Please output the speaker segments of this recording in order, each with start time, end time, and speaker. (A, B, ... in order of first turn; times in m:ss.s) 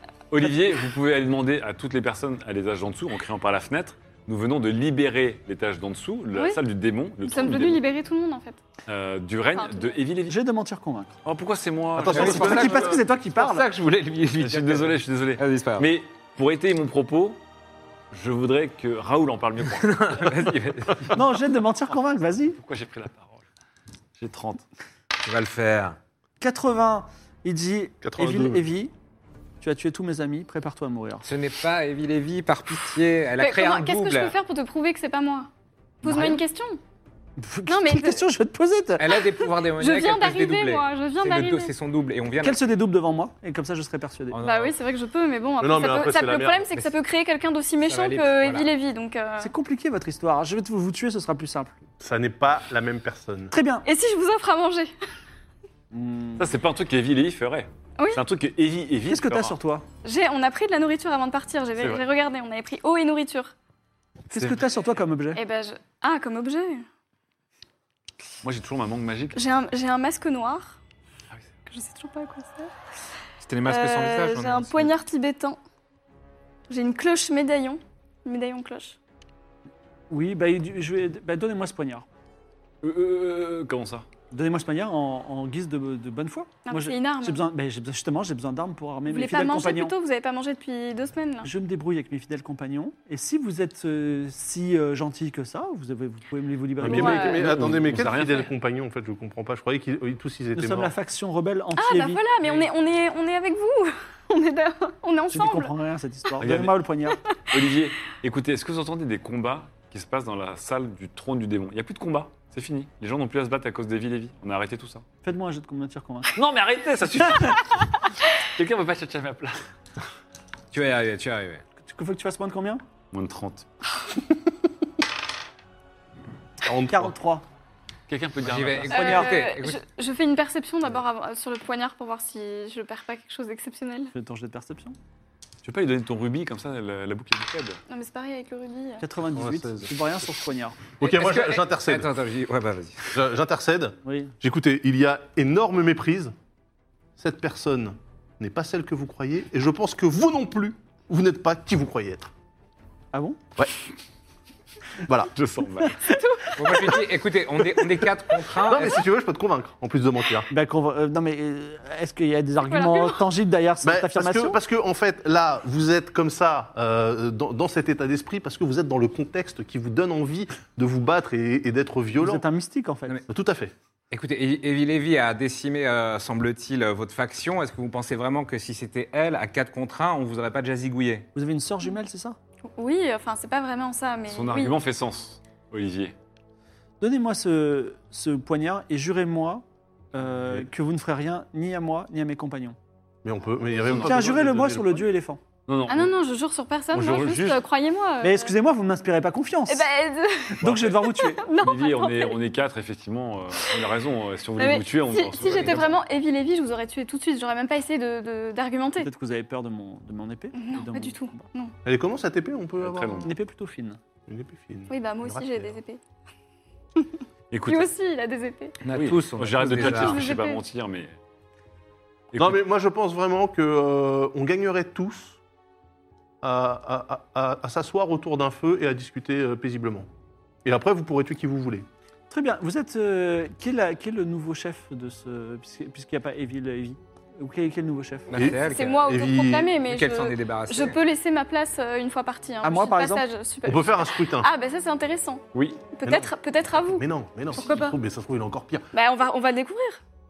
0:00.3-0:07.8 A
0:06.3-0:06.6 B
0:07.2-0:08.6 B
0:08.9-0:10.4 A
0:09.6-0:10.0 B
0:10.3-0:11.1 C
0:11.2-0:12.7 A
0:12.0-0:13.0 D
0:12.0-0:15.9 E
0:12.1-0:13.7 C
0:14.4-0:17.4 A
0:18.1-0:21.0 A
0:19.6-0:21.2 E
0:21.1-0:22.6 C
0:22.6-0:23.4 A
0:24.2-0:24.6 A
0:25.2-0:26.0 E
0:26.4-0:28.9 C
0:28.0-0:28.7 D
0:29.6-0:31.2 C
0:31.2-0:34.3 E
0:33.4-0:35.5 B
0:36.0-0:36.8 B
0:36.0-0:36.4 C
0:37.4-0:39.1 C
0:37.7-0:38.3 B
0:39.0-0:42.6 E
0:39.2-0:41.7 B
0:42.4-0:44.4 C
0:44.3-0:44.8 E
0:44.4-0:49.5 B
0:45.6-0:46.7 D
0:47.8-0:48.7 E
0:49.4-0:51.8 C
0:52.0-0:53.5 D
0:53.5-0:53.8 C
0:53.8-0:54.9 B
0:55.9-0:56.5 C
0:56.4-0:59.6 A
0:59.1-0:59.8 C
1:00.0-1:03.5 B
1:01.8-1:02.0 A
1:04.3-1:05.4 C
1:05.3-1:06.8 B
1:08.4-1:09.4 A
1:09.3-1:10.8 B
1:11.7-1:12.7 B
1:13.4-1:14.9 E
1:13.6-1:15.6 B
1:16.7-1:19.0 B
1:20.1-1:22.0 C
1:22.8-1:24.0 A
1:24.3-1:29.9 C
1:26.6-1:27.4 B
1:29.1-1:31.5 B
1:31.4-1:37.4 C
1:36.8-1:40.9 D
1:36.9-1:38.5 A
1:36.9-1:37.4 B
1:40.5-1:42.2 C
1:41.8-1:45.7 B
1:42.4-1:42.7 A
1:45.3-1:47.2 C
1:46.4-1:46.8 A
1:47.2-1:47.5 B
1:47.5-1:55.0 A
1:55.2-1:56.4 C
1:56.3-1:57.9 A
1:58.4-1:59.6 A
2:00.7-2:01.6 E
2:01.8-2:02.8 C
2:03.1-2:03.7 A
2:06.6-2:07.1 D
2:06.9-2:07.4 C
2:08.1-2:09.2 A
2:08.4-2:09.8 E
2:08.9-2:09.2 C
2:08.9-2:14.1 B
2:14.1-2:15.0 C
2:15.6-2:17.8 A
2:17.9-2:19.0 B
2:19.0-2:20.8 C
2:19.2-2:20.0 D
2:21.0-2:22.1 D
2:21.0-2:23.2 E
2:23.1-2:26.3 D
2:24.0-2:24.3 C
2:27.2-2:32.3 D
2:33.1-2:33.4 C
2:33.6-2:33.8 D
2:35.0-2:35.3 D
2:35.3-2:36.0 A
2:35.8-2:37.0 C
2:36.6-2:39.0 E
2:38.6-2:40.5 D
2:40.5-2:44.6 C
2:42.6-2:43.2 B
2:43.8-2:52.4 D
2:52.2-2:53.2 C
2:53.3-2:53.7 D
2:54.1-3:01.3 E
3:01.3-3:02.4 C
3:02.6-3:04.7 B
3:04.3-3:06.1 A
3:07.0-3:12.8 C
3:13.2-3:15.1 D
3:13.8-3:14.5 A
3:14.0-3:15.4 C
3:15.7-3:16.1 A
3:15.9-3:18.5 B
3:16.9-3:17.6 A
3:18.2-3:19.9 C
3:19.7-3:22.4 B
3:20.5-3:21.4 C
3:20.6-3:26.0 A
3:24.6-3:29.1 B
3:25.6-3:25.8 E
3:29.0-3:31.5 C
3:30.5-3:31.7 B
3:31.8-3:33.3 D
3:32.8-3:33.3 A
3:33.2-3:34.0 C
3:34.3-3:35.8 D
3:34.9-3:36.0 B
3:37.0-3:38.8 B
3:37.5-3:37.9 A
3:38.8-3:40.3 E
3:38.9-3:41.2 A
3:39.7-3:40.6 B
3:42.3-3:42.6 A
3:42.4-3:45.4 D
3:46.4-3:50.1 D
3:50.6-3:51.9 D
3:52.3-3:58.5 C
3:58.3-3:59.1 E
3:58.3-3:59.7 D
3:58.6-4:08.0 B
3:59.8-4:01.0 E
4:02.6-4:03.3 C
4:03.6-4:04.5 D
4:05.5-4:05.8 A
4:06.0-4:08.9 D
4:08.9-4:10.0 B